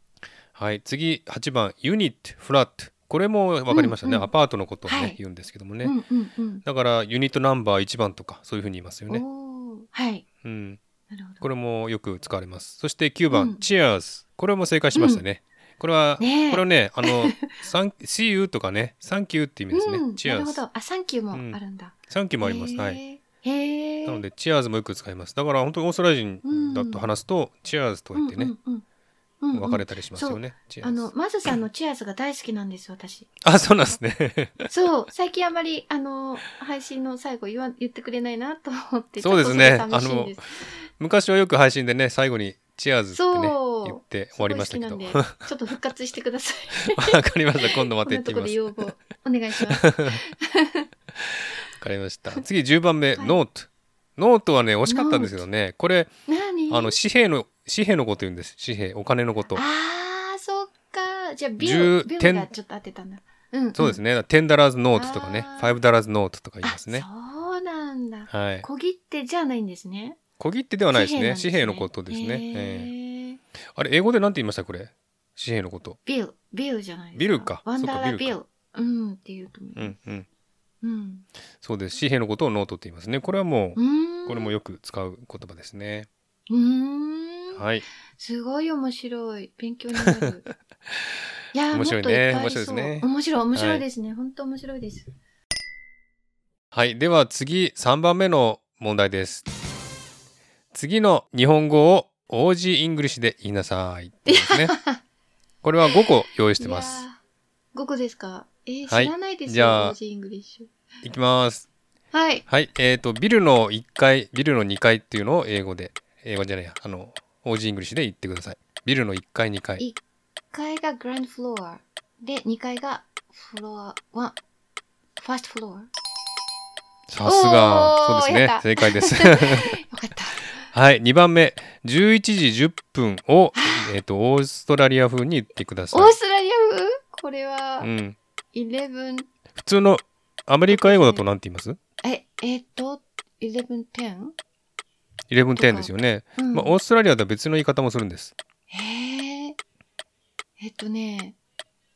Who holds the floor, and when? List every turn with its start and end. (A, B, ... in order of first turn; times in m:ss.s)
0:00.5-0:05.9 A
0:03.7-0:04.3 B
0:04.8-0:05.2 B
0:05.8-0:06.6 B
0:06.6-0:09.2 A
0:09.1-0:10.2 B
0:10.4-0:10.8 A
0:11.1-0:11.4 B
0:11.4-0:20.6 A
0:13.3-0:13.6 B
0:14.9-0:15.2 B
0:16.2-0:17.6 B
0:19.7-0:24.2 B
0:21.3-0:23.0 A
0:24.0-0:28.5 A
0:26.4-0:27.0 B
0:28.1-0:28.8 B
0:29.4-0:33.3 B
0:29.5-0:31.1 A
0:33.4-0:34.7 A
0:34.7-0:40.4 B
0:39.2-0:40.4 A
0:41.0-0:45.4 A
0:43.1-0:50.9 B
0:46.9-0:48.8 A
0:49.7-0:50.2 A
0:51.3-0:56.1 A
0:54.8-0:55.4 B
0:56.3-0:57.0 B
0:56.7-0:59.6 A
0:59.5-1:04.0 B
1:01.6-1:02.5 A
1:03.8-1:07.0 A
1:04.9-1:05.8 B
1:06.6-1:10.2 B
1:08.3-1:08.6 A
1:10.4-1:12.9 A
1:10.9-1:13.4 B
1:13.7-1:16.0 A
1:16.0-1:19.9 B
1:17.1-1:18.4 A
1:19.8-1:20.3 A
1:20.8-1:21.2 B
1:21.6-1:26.1 A
1:23.8-1:24.5 B
1:26.5-1:27.6 B
1:27.5-1:27.8 A
1:28.2-1:30.4 B
1:31.5-1:35.1 B
1:31.7-1:33.8 A
1:36.7-1:39.4 A
1:40.7-1:44.8 A
1:44.3-1:45.0 B
1:45.6-1:47.0 A
1:46.6-1:47.2 B
1:47.7-1:50.7 B
1:48.9-1:50.0 A
1:51.0-1:51.7 A
1:52.1-1:52.4 B
1:52.5-1:59.8 A
2:00.5-2:04.4 B
2:05.2-2:05.9 B
2:07.1-2:09.7 A
2:07.2-2:10.5 B
2:10.7-2:16.2 A
2:13.5-2:13.9 B
2:15.9-2:17.9 B
2:17.8-2:18.2 A
2:18.5-2:19.3 B
2:19.6-2:21.8 A
2:20.7-2:21.2 B
2:22.0-2:24.3 B
2:25.3-2:28.3 A
2:25.6-2:26.8 B
2:28.7-2:29.6 B
2:30.6-2:31.4 B